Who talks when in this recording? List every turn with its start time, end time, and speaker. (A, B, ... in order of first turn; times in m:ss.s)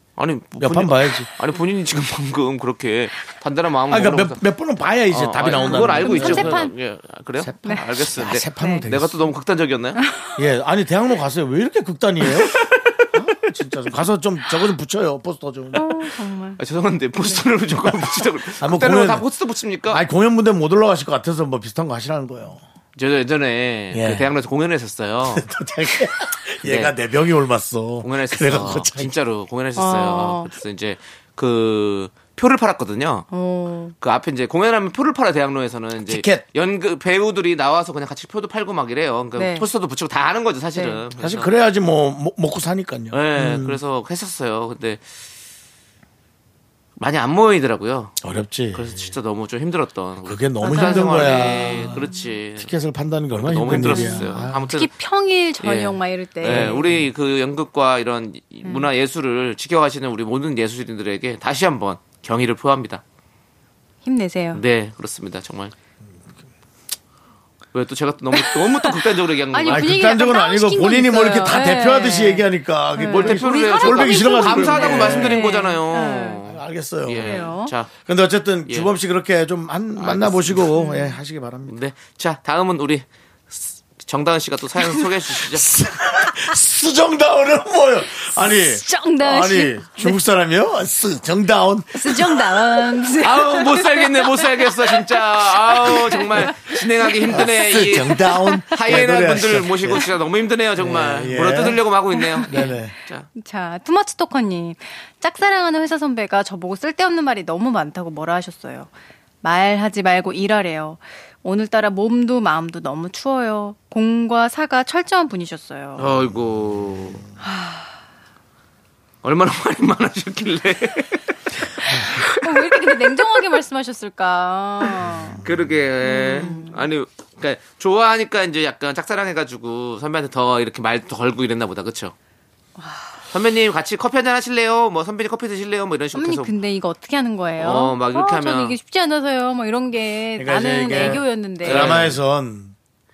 0:00.2-0:04.4 A
0:00.6-0:01.3 B
0:03.9-0:06.7 B
0:05.1-0:10.0 A
0:05.5-0:06.7 C
0:07.4-0:09.3 B
0:08.6-0:08.8 C
0:10.0-0:10.4 C
0:10.4-0:12.6 B
0:12.2-0:13.1 A
0:13.1-0:16.1 B
0:15.7-0:16.6 C
0:16.6-0:20.0 A
0:18.5-0:19.2 B
0:19.9-0:22.6 B
0:23.0-0:25.5 A
0:23.9-0:24.3 B
0:25.2-0:29.1 B
0:26.6-0:26.9 A
0:28.0-0:33.3 A
0:29.8-0:30.5 C
0:33.3-0:33.9 C
0:34.0-0:41.5 A
0:36.1-0:36.4 B
0:39.4-0:39.7 C
0:40.7-0:41.0 C
0:41.2-0:43.8 B
0:43.1-0:45.0 A
0:47.0-0:48.2 A
0:48.2-0:49.1 B
0:48.7-0:52.7 A
0:50.2-0:52.0 B
0:50.6-0:52.1 C
0:52.6-0:54.6 B
0:53.4-0:54.9 A
0:53.7-0:57.0 C
0:55.6-1:03.0 A
0:56.4-0:57.0 B
1:04.0-1:04.6 C
1:04.5-1:05.7 A
1:07.7-1:09.9 A
1:08.3-1:16.4 C
1:09.7-1:15.5 B
1:13.0-1:17.9 A
1:16.4-1:21.7 B
1:17.2-1:17.7 C
1:18.7-1:18.9 A
1:20.0-1:20.7 A
1:20.8-1:21.1 C
1:21.7-1:25.7 A
1:24.9-1:33.0 B
1:28.3-1:30.2 C
1:32.0-1:37.5 C
1:33.2-1:43.3 A
1:37.3-1:40.0 B
1:38.2-1:38.8 C
1:40.8-1:41.8 B
1:42.3-1:42.7 C
1:42.4-1:42.9 B
1:43.4-1:48.9 C
1:49.4-1:56.1 C
1:56.0-1:57.2 A
1:57.4-1:57.9 C
1:59.2-2:03.3 A
2:01.8-2:05.4 C
2:05.4-2:12.1 A
2:06.0-2:06.8 C
2:12.8-2:13.1 C
2:13.3-2:16.5 A
2:16.1-2:22.1 C
2:17.6-2:18.8 A
2:20.4-2:22.8 B
2:20.9-2:22.2 A